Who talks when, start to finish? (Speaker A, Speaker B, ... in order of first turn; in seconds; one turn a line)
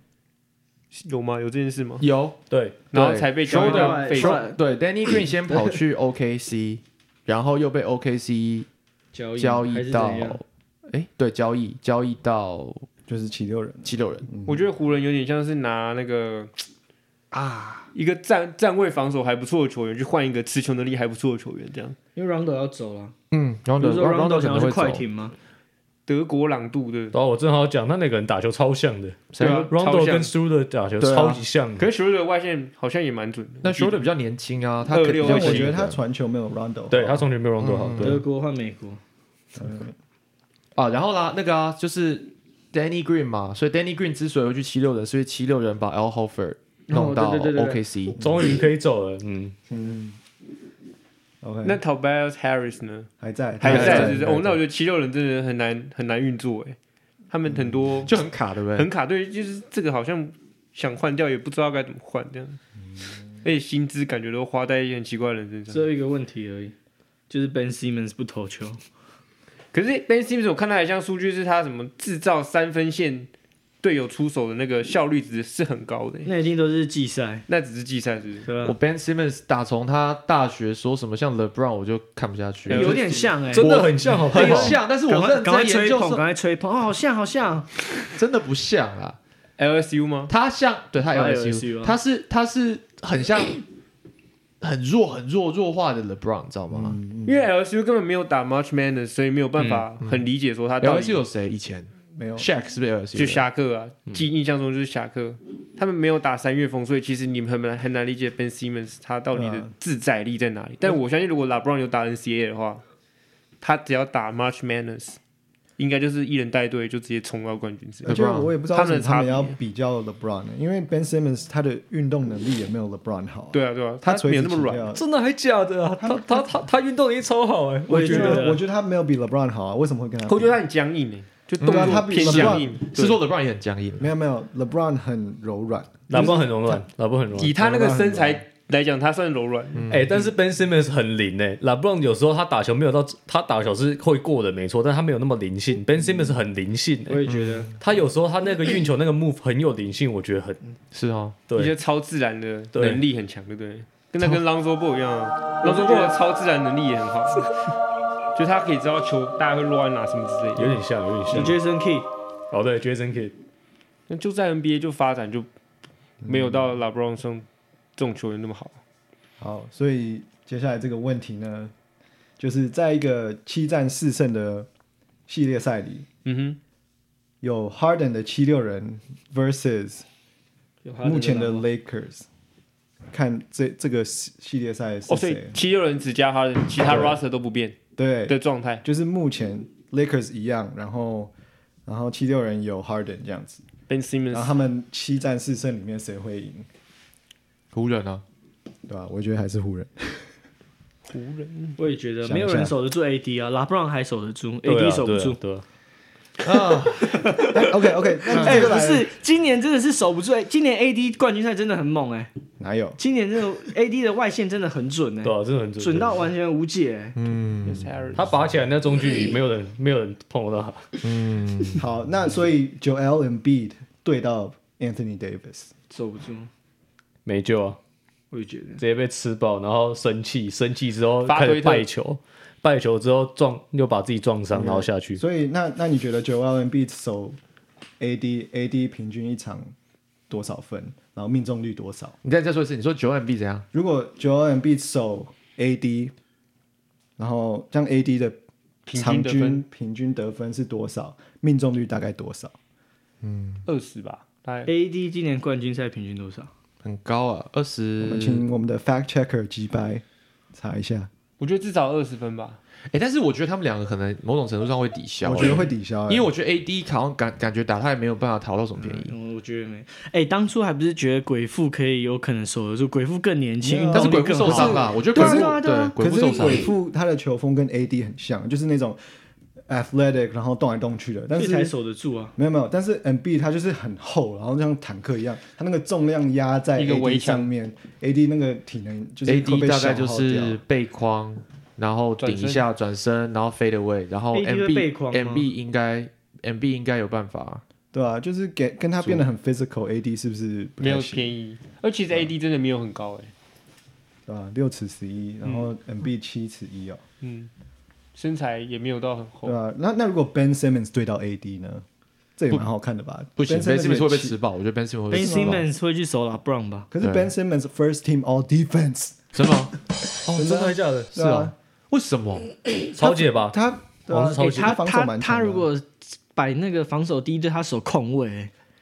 Speaker A: 0.9-2.0
Speaker B: 2.0-8.7
Speaker C: 2.5-2.8
Speaker A: 2.9-4.4
Speaker D: 3.5-4.6
Speaker D: 9.1-10.4
Speaker B: 9.3-12.9
Speaker E: 13.1-14.7
Speaker B: 13.8-14.3
Speaker A: 14.4-16.6
Speaker B: 17.3-17.9
Speaker A: 17.9-22.0
Speaker D: 22.1-23.1
Speaker B: 23.3-25.0
Speaker D: 23.8-25.3
Speaker A: 26.1-27.1
Speaker C: 27.1-31.9
Speaker B: 29.3-29.7
Speaker A: 29.4-30.3
Speaker B: 31.0-31.4
Speaker A: 31.8-34.0
Speaker B: 33.6-36.0
Speaker A: 34.9-35.8
Speaker E: 35.2-37.3
Speaker C: 36.9-38.2
Speaker B: 37.6-38.2
Speaker D: 38.0-39.0
Speaker E: 39.5-39.9
Speaker B: 40.7-48.2
Speaker D: 46.9-47.8
Speaker C: 48.2-49.5
Speaker E: 49.7-50.2
Speaker E: 51.4-51.8
Speaker A: 51.6-53.1
Speaker E: 53.2-54.6
Speaker A: 53.6-56.8
Speaker B: 53.6-54.2
Speaker A: 57.3-58.2
Speaker E: 57.5-58.0
Speaker B: 58.0-58.9
Speaker A: 58.7-62.6
Speaker A: 63.4-65.9
Speaker D: 65.7-66.7
Speaker D: 67.3-68.8
Speaker A: 69.7-73.3
Speaker A: 73.8-76.3
Speaker D: 76.2-77.4
Speaker A: 77.5-78.5
Speaker D: 78.5-78.8
Speaker B: 78.6-83.0
Speaker A: 82.7-83.4
Speaker D: 82.7-83.7
Speaker C: 83.5-84.8
Speaker B: 83.6-86.2
Speaker D: 84.3-87.7
Speaker B: 88.1-89.2
Speaker A: 89.6-90.3
Speaker B: 90.3-93.6
Speaker D: 91.1-92.0
Speaker B: 94.6-97.0
Speaker E: 96.7-97.5
Speaker A: 97.2-101.2
Speaker C: 99.6-99.9
Speaker B: 100.8-103.4
Speaker E: 102.1-102.5
Speaker A: 103.1-112.8
Speaker E: 109.3-109.7
Speaker A: 113.6-115.2
Speaker A: 115.8-119.5
Speaker B: 118.0-118.5
Speaker E: 118.0-125.0
Speaker A: 123.5-124.9
Speaker C: 124.9-128.6
Speaker E: 126.0-126.5
Speaker D: 127.9-128.6
Speaker E: 127.9-130.6
Speaker A: 130.2-133.2
Speaker B: 131.6-134.1
Speaker E: 131.6-132.8
Speaker E: 134.0-136.8
Speaker C: 136.1-137.6
Speaker A: 137.3-139.9
Speaker E: 137.6-138.4
Speaker B: 139.7-140.2
Speaker C: 139.9-150.6
Speaker D: 147.1-147.7
Speaker B: 147.3-147.7
Speaker B: 150.9-151.4
Speaker C: 151.5-151.7
Speaker A: 151.6-157.5
Speaker C: 152.7-153.0
Speaker D: 155.6-156.1
Speaker A: 158.3-160.7
Speaker C: 160.5-161.6
Speaker D: 161.3-162.1
Speaker C: 162.5-163.3
Speaker A: 164.1-165.5
Speaker E: 166.2-166.7
Speaker A: 166.2-167.4
Speaker A: 168.0-168.8
Speaker E: 169.4-171.7
Speaker E: 172.4-174.7
Speaker E: 175.3-176.1
Speaker A: 176.2-176.6
Speaker E: 177.4-180.1
Speaker D: 180.8-181.7
Speaker E: 181.0-182.2
Speaker E: 183.1-185.6
Speaker A: 185.1-187.8
Speaker E: 186.8-187.2
Speaker E: 187.9-191.3
Speaker A: 188.3-188.8
Speaker E: 191.8-193.6
Speaker A: 193.9-194.6
Speaker E: 194.3-196.7
Speaker B: 197.7-198.2
Speaker E: 198.9-200.3
Speaker A: 201.1-201.8
Speaker D: 201.8-205.4
Speaker E: 202.2-202.7
Speaker C: 204.6-205.6
Speaker B: 206.4-207.4
Speaker D: 207.0-212.3
Speaker E: 207.5-209.1
Speaker E: 212.6-213.0
Speaker D: 213.0-217.2
Speaker C: 215.2-216.3
Speaker B: 217.1-217.9
Speaker A: 217.6-218.4
Speaker C: 218.1-221.0
Speaker B: 221.0-221.8
Speaker E: 221.8-225.7
Speaker D: 225.9-226.5
Speaker C: 227.2-227.8
Speaker D: 228.3-228.8
Speaker C: 228.8-235.2
Speaker A: 231.2-231.9
Speaker E: 234.5-237.4
Speaker E: 238.0-239.7
Speaker E: 240.3-242.2
Speaker B: 242.2-243.7
Speaker E: 243.7-246.1
Speaker E: 247.2-248.4
Speaker A: 248.8-249.6
Speaker E: 248.9-252.5
Speaker B: 253.2-253.6
Speaker A: 253.7-254.7
Speaker D: 254.7-256.5
Speaker B: 256.8-258.4
Speaker E: 258.0-261.1
Speaker A: 261.4-262.6
Speaker B: 262.9-269.1
Speaker E: 265.2-266.3
Speaker D: 268.8-275.9
Speaker E: 273.6-279.0
Speaker B: 273.9-276.7
Speaker E: 279.7-281.7
Speaker D: 281.3-282.3
Speaker E: 282.4-290.6
Speaker A: 286.8-287.5
Speaker B: 289.2-297.6
Speaker A: 292.2-292.7
Speaker D: 294.3-295.5
Speaker E: 297.9-301.3
Speaker A: 300.8-303.3
Speaker E: 304.3-307.0
Speaker A: 305.4-305.7
Speaker A: 307.2-307.5
Speaker A: 308.1-309.6
Speaker E: 309.4-311.8
Speaker E: 312.4-314.4
Speaker B: 313.4-315.6
Speaker D: 315.1-316.9
Speaker E: 315.1-315.6
Speaker E: 316.9-319.3
Speaker B: 317.0-317.3
Speaker B: 319.3-320.6
Speaker E: 320.3-321.5
Speaker C: 320.4-321.1
Speaker B: 321.1-322.6
Speaker C: 323.0-323.6
Speaker E: 323.0-325.7
Speaker C: 324.1-324.7
Speaker D: 324.4-328.5